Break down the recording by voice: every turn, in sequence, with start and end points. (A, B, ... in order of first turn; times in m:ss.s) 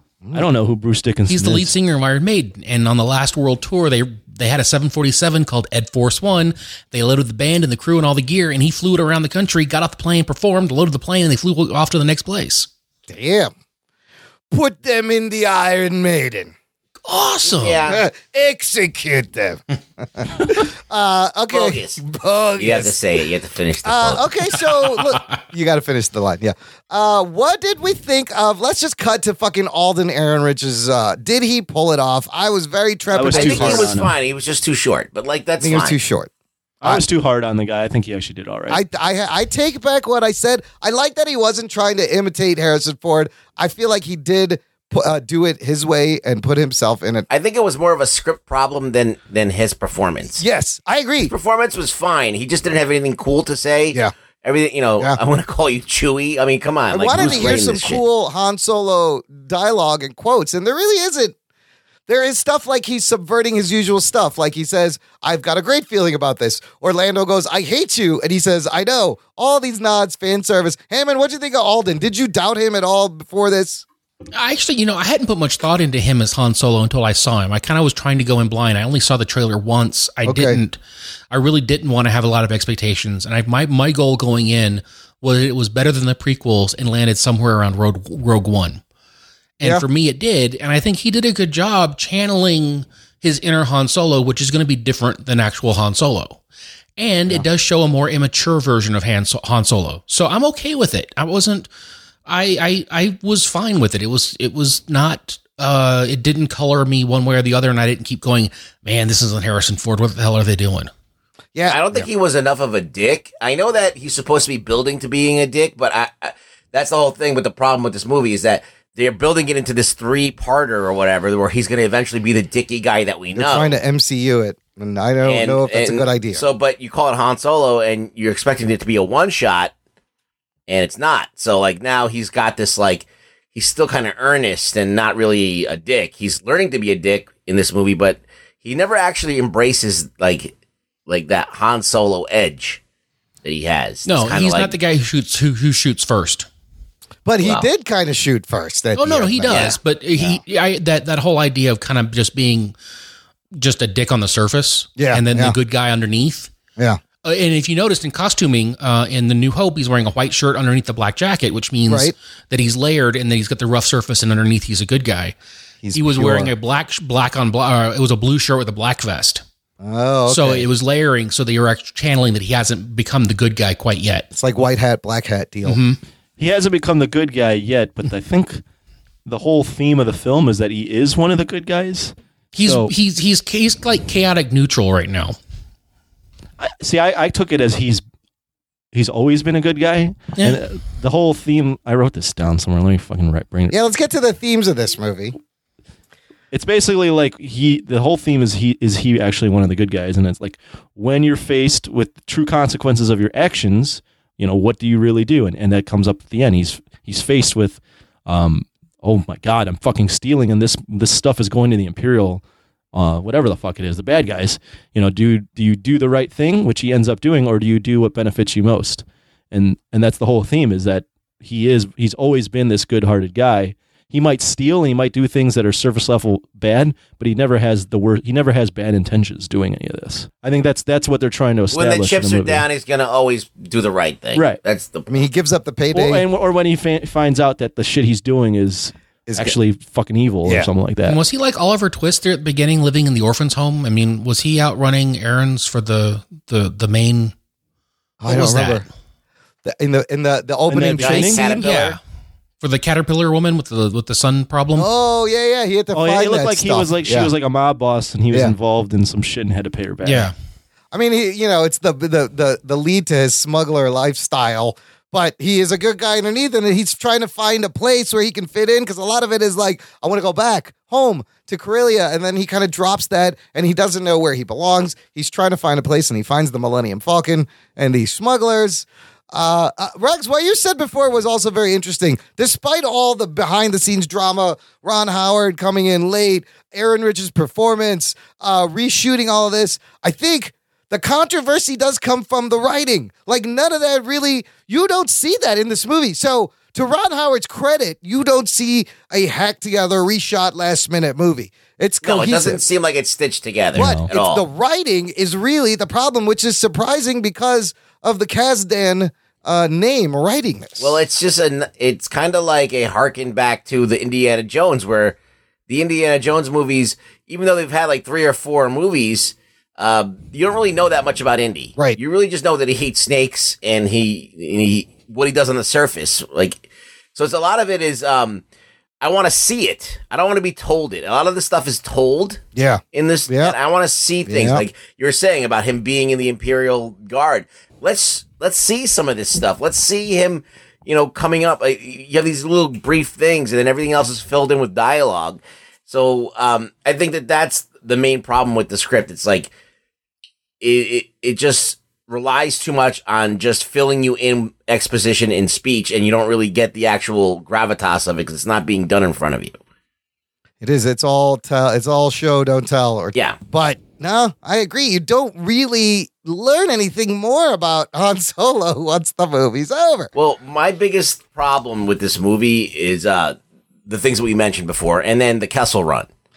0:00.3-0:01.7 A
0:01.3-0:12.7 B
0:13.1-0:13.5 C
0:14.5-0:16.5 C
0:17.0-0:17.8 B
0:17.4-0:18.0 D
0:17.9-0:19.6 C
0:20.2-0:22.9 C
0:21.5-0:22.0 D
0:22.6-0:24.3 D
0:23.8-0:33.9 C
0:33.1-0:34.1 A
0:33.3-0:36.0 D
0:35.6-0:36.3 C
0:36.8-0:38.8 A
0:38.7-0:47.3 C
0:47.3-0:50.4 D
0:50.4-0:51.3 C
0:51.3-0:58.0 D
0:56.9-1:01.3 C
1:02.1-1:13.8 C
1:14.4-1:20.8 B
1:20.2-1:20.6 C
1:21.3-1:28.8 B
1:29.6-1:36.4 B
1:37.0-1:41.7 B
1:42.3-1:50.9 B
1:51.6-1:52.0 C
1:51.7-2:03.7 D
2:03.4-2:06.4 C
2:05.2-2:09.7 D
2:10.7-2:20.5 D
2:21.1-2:22.8 D
2:23.4-2:24.7 D
2:24.0-2:26.5 B
2:27.2-2:30.4 C
2:27.4-2:27.7 D
2:29.0-2:32.7 B
2:29.5-2:29.8 D
2:33.6-2:36.5 B
2:35.0-2:35.6 C
2:37.2-2:45.4 B
2:41.9-2:42.1 C
2:45.8-2:46.5 C
2:45.9-2:49.4 B
2:49.8-2:50.6 C
2:50.3-2:54.3 B
2:54.3-2:55.8 C
2:55.6-2:56.0 B
2:56.4-2:58.6 A
2:59.3-3:02.9 A
3:02.5-3:05.4 B
3:06.6-3:08.0 A
3:08.9-3:13.8 A
3:13.7-3:15.4 C
3:16.5-3:32.4 A
3:32.9-3:52.6 A
3:51.7-3:55.1 D
3:55.1-3:56.2 C
3:55.9-4:01.2 A
3:59.3-3:59.6 C
4:01.1-4:07.3 B
4:08.2-4:08.8 C
4:08.3-4:08.8 B
4:09.6-4:11.6 C
4:10.7-4:11.4 A
4:11.0-4:12.0 D
4:11.6-4:12.0 B
4:12.6-4:14.9 B
4:14.8-4:17.3 C
4:15.9-4:20.3 A
4:20.0-4:20.3 B
4:20.9-5:02.6 C
5:02.0-5:04.4 D
5:03.7-5:04.1 A
5:03.7-5:11.0 C
5:10.8-5:15.2 D
5:15.7-5:28.4 D
5:29.0-5:32.4 D
5:32.6-5:33.6 C
5:32.9-5:49.5 D
5:34.3-5:34.6 C
5:50.6-5:59.6 D
6:00.6-6:10.1 C
6:10.2-6:16.1 D